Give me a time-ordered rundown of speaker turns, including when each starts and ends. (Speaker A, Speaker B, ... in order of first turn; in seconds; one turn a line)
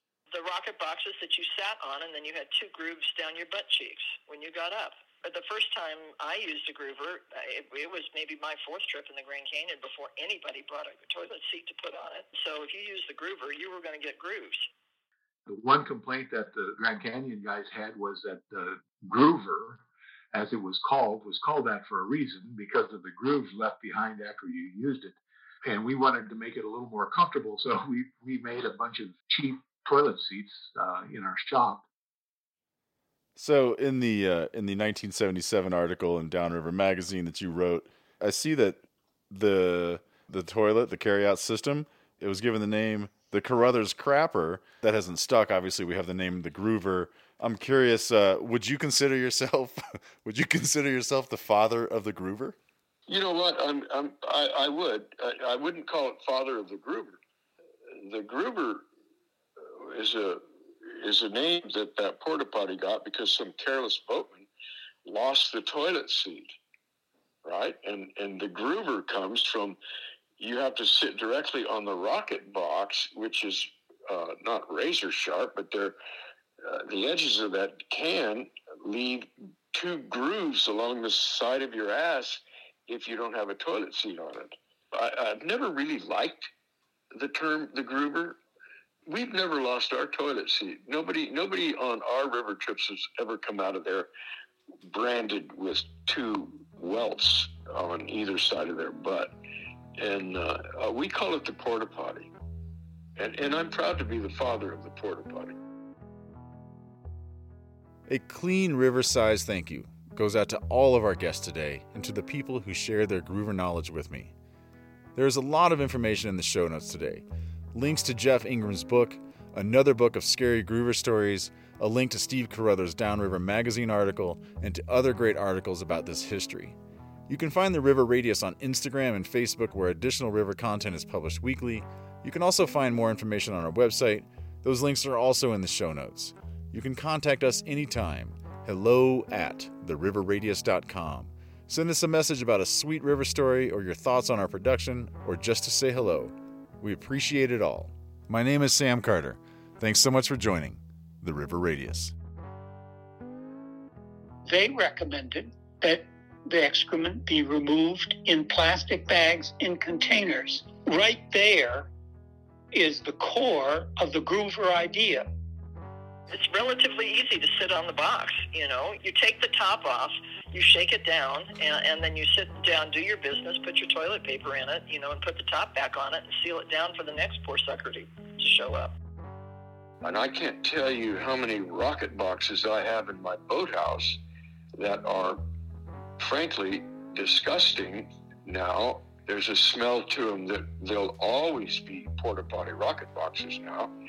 Speaker A: 0.3-14.7
Speaker B: 15.5-31.9
Speaker C: 33.4-52.6
Speaker D: 53.1-57.2
Speaker D: 58.0-58.8
Speaker D: 59.6-64.5
Speaker D: 65.0-66.6
Speaker D: 67.4-69.8
Speaker D: 70.4-76.0
Speaker D: 76.6-86.5
Speaker D: 87.1-88.4
Speaker D: 89.1-94.1
Speaker D: 94.9-99.3
Speaker D: 100.0-102.3
Speaker D: 103.2-105.6
Speaker C: 108.1-114.3
Speaker C: 115.2-126.8
Speaker C: 127.3-152.1
Speaker E: 154.5-161.9
Speaker E: 162.7-165.3
Speaker A: 166.3-178.9
Speaker D: 180.0-184.2
Speaker D: 184.8-185.4
Speaker D: 186.2-193.9